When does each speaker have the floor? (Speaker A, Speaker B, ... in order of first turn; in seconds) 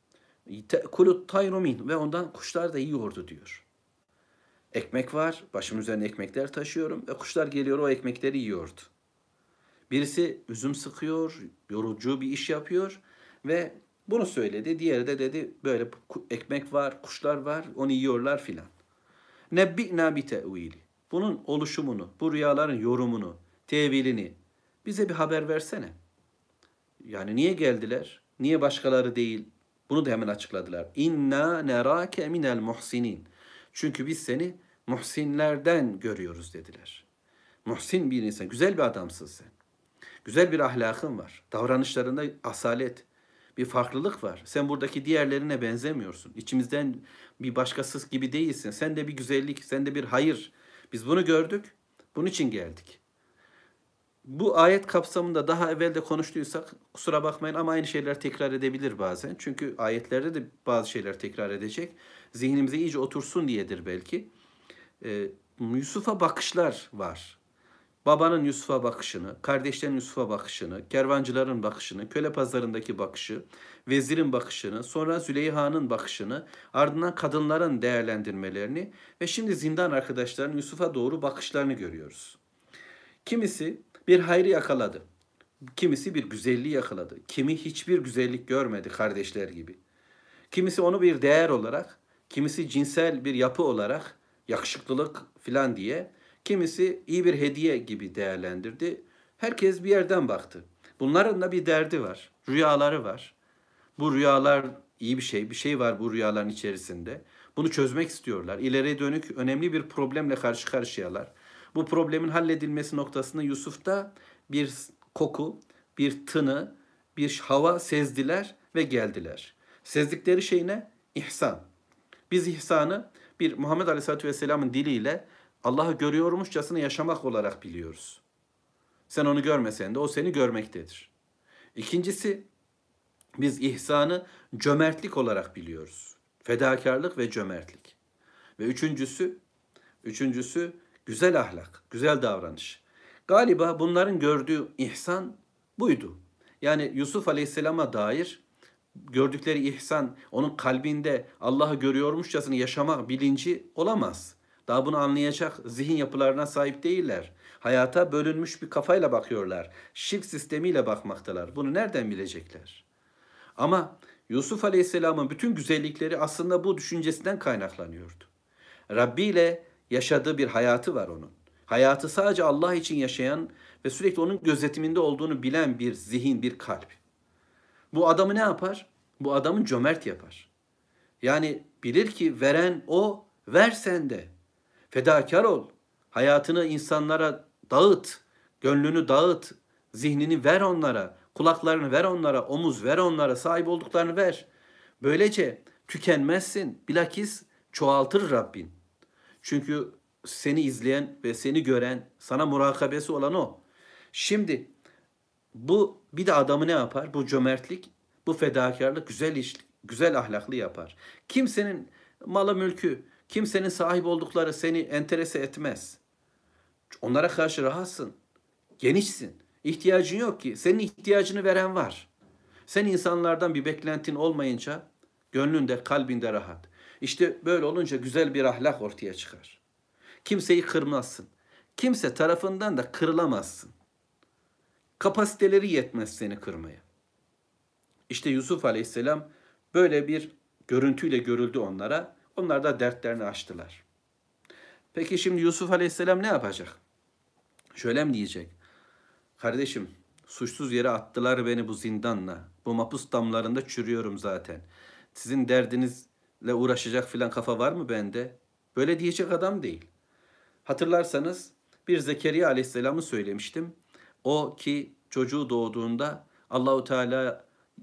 Speaker A: 0.5-3.6, 4.7-8.9, 9.9-18.7, 19.5-25.9, 27.0-37.0, 37.6-39.5, 40.2-53.0, 54.2-64.3, 65.0-67.4, 68.0-82.4, 83.2-85.0, 85.7-89.8, 90.5-103.3, 104.0-121.7, 122.3-128.2, 129.1-131.1, 131.7-132.5, 133.4-138.0, 138.6-139.4, 140.0-148.4, 149.0-162.8, 163.6-168.3, 168.9-177.0, 177.9-180.5, 181.2-184.3, 184.9-194.5, 195.0-198.7, 199.4-203.6, 204.1-204.7, 205.5-216.0, 216.9-218.1, 218.8-222.1, 222.7-229.6, 230.2-233.7, 235.0-236.8, 238.1-243.8, 244.9-246.8, 247.8-248.5, 249.4-259.9, 260.6-267.4